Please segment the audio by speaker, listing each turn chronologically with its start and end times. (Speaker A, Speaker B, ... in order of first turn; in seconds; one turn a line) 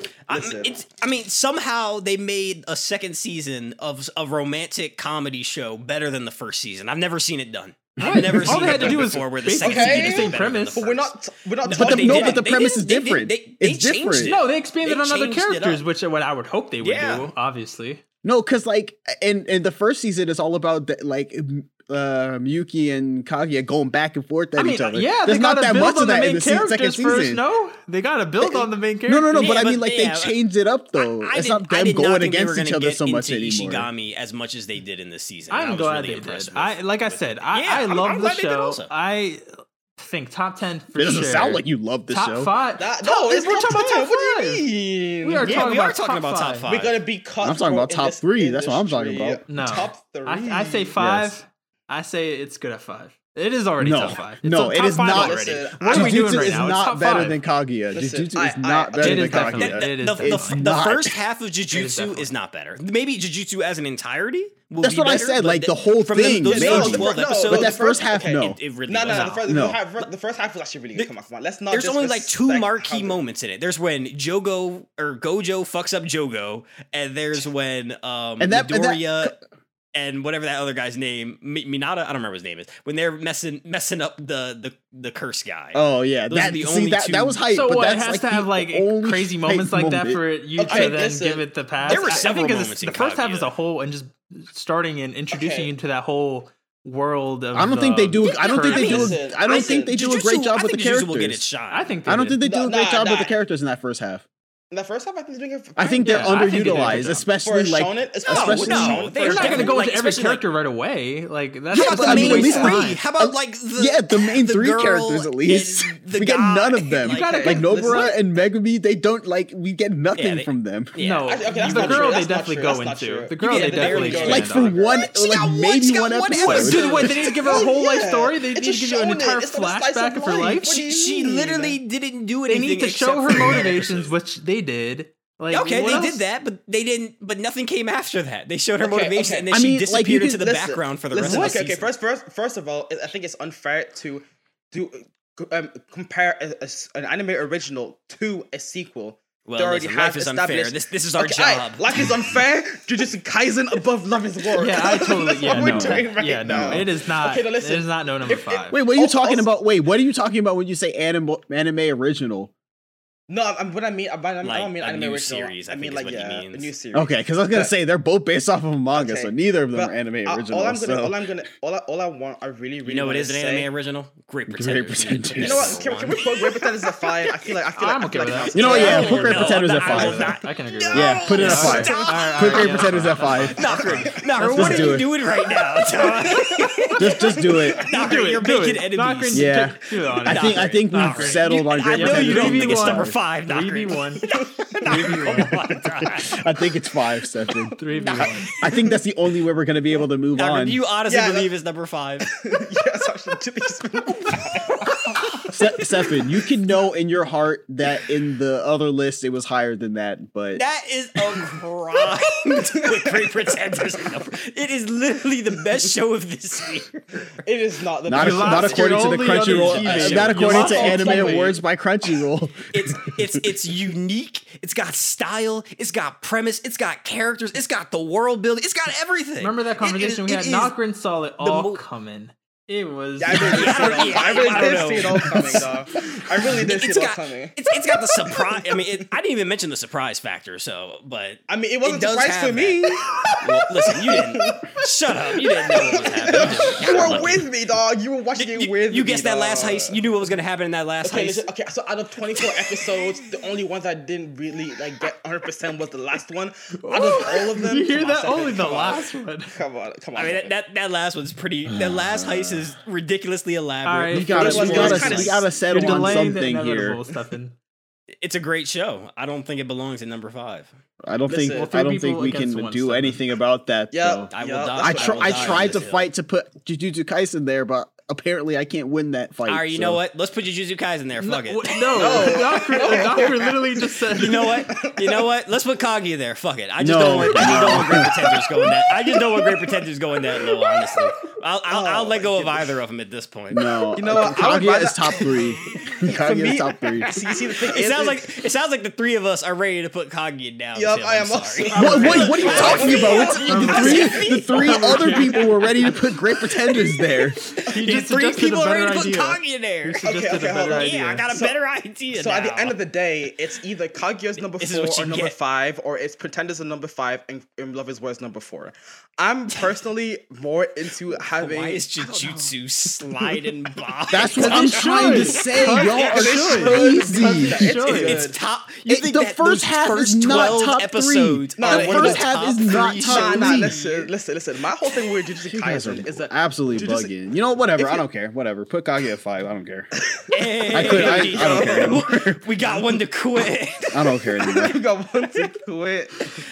Speaker A: 0.3-15.8
Speaker B: 0.3-0.8
Speaker C: 8.0-9.0
Speaker D: 8.0-10.8
Speaker B: 9.6-12.7
Speaker C: 11.7-14.3
Speaker D: 14.2-18.0
Speaker A: 16.8-17.3
Speaker C: 18.2-27.4
Speaker D: 24.6-29.5
Speaker C: 28.4-33.9
Speaker A: 29.4-30.4
Speaker A: 31.0-38.9
Speaker D: 35.5-44.7
Speaker C: 41.0-42.5
Speaker B: 42.8-45.6
Speaker D: 45.2-46.7
Speaker A: 45.4-47.0
Speaker B: 46.7-51.0
Speaker C: 47.4-49.4
Speaker D: 49.5-57.4
Speaker C: 51.0-51.4
Speaker C: 53.8-61.2
Speaker B: 55.0-56.8
Speaker B: 57.9-59.7
Speaker D: 59.0-60.6
Speaker A: 59.5-70.1
Speaker D: 61.7-62.3
Speaker C: 64.8-68.6
Speaker B: 66.5-73.2
Speaker D: 69.1-69.4
Speaker C: 69.5-69.8
Speaker A: 71.7-79.4
Speaker C: 78.4-79.4
Speaker A: 79.9-87.4
Speaker C: 85.7-90.2
Speaker D: 87.5-99.2
Speaker B: 90.6-92.3
Speaker A: 90.7-91.0
Speaker A: 91.9-93.5
Speaker B: 95.3-95.7
Speaker C: 97.5-101.4
Speaker B: 98.3-99.9
Speaker A: 98.7-102.0
Speaker D: 101.7-102.4
Speaker C: 102.1-104.2
Speaker B: 102.4-103.4
Speaker B: 104.7-109.8
Speaker C: 105.8-109.1
Speaker D: 106.0-107.2
Speaker A: 108.3-110.5
Speaker D: 109.2-113.0
Speaker A: 111.7-117.5
Speaker C: 111.7-120.9
Speaker D: 117.1-118.1
Speaker B: 117.1-118.2
Speaker A: 120.2-122.2
Speaker D: 121.0-124.8
Speaker B: 121.2-125.1
Speaker A: 123.4-127.4
Speaker C: 124.2-127.1
Speaker D: 126.4-130.8
Speaker B: 126.7-131.8
Speaker A: 130.7-134.1
Speaker D: 132.5-136.2
Speaker A: 135.5-141.9
Speaker B: 138.8-139.5
Speaker C: 139.5-140.5
Speaker B: 140.3-159.5
Speaker D: 141.2-141.6
Speaker A: 149.5-152.1
Speaker D: 154.6-158.8
Speaker C: 155.5-156.9
Speaker C: 158.7-162.5
Speaker B: 163.3-167.7
Speaker A: 164.4-166.7
Speaker C: 166.9-171.2
Speaker B: 168.9-173.7
Speaker A: 172.8-177.3
Speaker C: 174.5-175.8
Speaker B: 175.4-179.5
Speaker D: 177.8-184.9
Speaker C: 178.5-180.4
Speaker A: 178.6-189.7
Speaker C: 180.9-183.6
Speaker B: 181.5-182.2
Speaker B: 183.8-184.9
Speaker C: 184.5-185.1
Speaker B: 185.5-187.9
Speaker C: 187.0-187.9
Speaker D: 187.9-194.3
Speaker C: 189.3-193.2
Speaker A: 190.2-196.4
Speaker D: 194.8-195.6
Speaker C: 196.2-197.8
Speaker D: 197.8-198.5
Speaker A: 198.0-198.6
Speaker B: 198.0-199.0
Speaker C: 198.6-200.8
Speaker A: 200.3-202.3
Speaker B: 201.1-201.5
Speaker B: 202.3-205.5
Speaker A: 204.9-205.6
Speaker C: 205.5-210.6
Speaker A: 210.6-217.4
Speaker B: 212.5-214.2
Speaker B: 217.4-219.4
Speaker C: 218.1-223.4
Speaker D: 218.1-221.5
Speaker A: 219.4-221.1
Speaker B: 220.0-221.6
Speaker A: 222.7-230.8
Speaker D: 229.4-234.8
Speaker A: 231.4-231.8
Speaker B: 233.2-238.9
Speaker A: 233.4-235.7
Speaker A: 236.5-247.5
Speaker B: 241.5-250.0
Speaker A: 248.4-251.5
Speaker B: 251.0-260.5
Speaker D: 256.8-259.6
Speaker A: 260.2-265.5
Speaker C: 261.7-262.7
Speaker D: 263.8-267.6
Speaker C: 264.1-267.0
Speaker B: 264.3-266.3
Speaker A: 268.2-270.7
Speaker C: 271.0-280.0
Speaker B: 271.3-271.7
Speaker D: 271.5-273.2
Speaker B: 273.9-275.9
Speaker A: 274.3-276.1
Speaker A: 279.5-283.3
Speaker D: 281.2-284.6
Speaker B: 281.9-285.2
Speaker A: 284.1-293.8
Speaker C: 286.8-288.1
Speaker B: 287.4-288.1
Speaker B: 288.6-289.8
Speaker B: 290.3-291.1
Speaker B: 291.7-292.7
Speaker C: 293.5-297.1
Speaker B: 294.0-298.3
Speaker A: 297.0-305.5
Speaker B: 300.8-304.2
Speaker C: 301.7-307.4
Speaker D: 301.8-305.7
Speaker A: 307.6-310.1
Speaker D: 307.7-311.3
Speaker B: 310.0-311.6
Speaker A: 310.7-312.8
Speaker B: 312.1-322.5
Speaker A: 314.4-315.3
Speaker A: 321.1-326.3
Speaker C: 324.1-327.7
Speaker D: 324.4-328.2
Speaker B: 325.7-328.4
Speaker A: 327.9-334.1
Speaker C: 328.9-333.8
Speaker B: 330.4-330.7
Speaker B: 331.6-332.3
Speaker B: 333.0-337.1
Speaker C: 335.5-339.9
Speaker B: 337.8-338.0
Speaker B: 340.1-342.1
Speaker A: 340.3-344.0
Speaker C: 340.7-342.4
Speaker C: 343.9-344.8
Speaker B: 344.3-346.4